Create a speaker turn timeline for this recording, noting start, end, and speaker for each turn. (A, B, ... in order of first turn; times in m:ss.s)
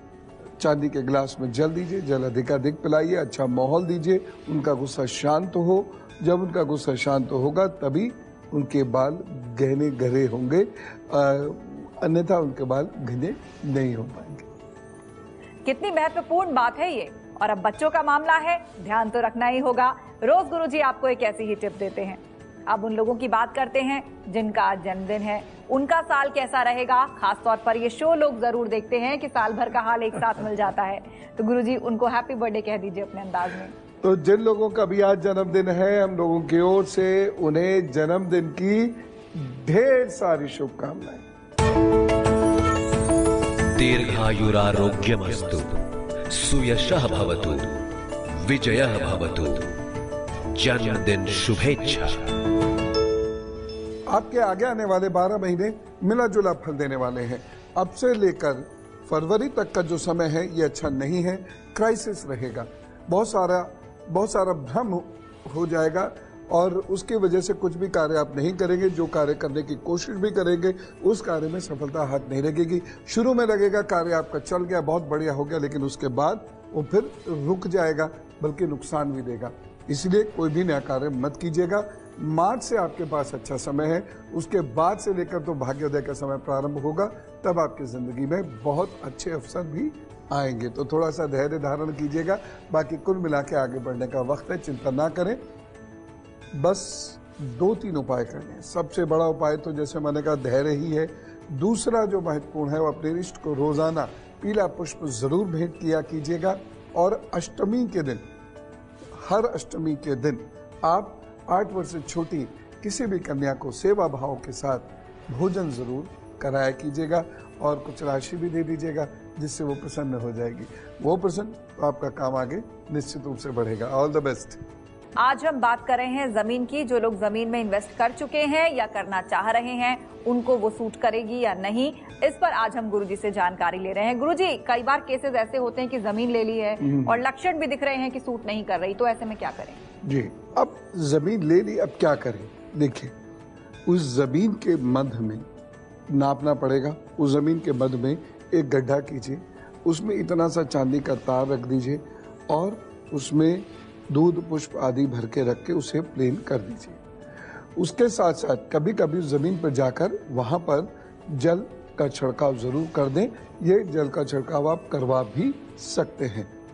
0:00.6-0:14.5 A
0:15.6-0:33.7 B
0:34.0-0:41.2 A
0:43.7-0:47.8 C
0:48.4-0:49.7 C
0:50.5-0:52.3 C
0:54.1-1:35.4 A
1:36.5-1:48.2 A
1:49.1-2:04.6 A
2:05.2-2:19.8 B
2:20.0-2:23.1 A
2:23.9-2:25.4 A
2:26.1-2:37.0 A
2:37.8-2:46.5 A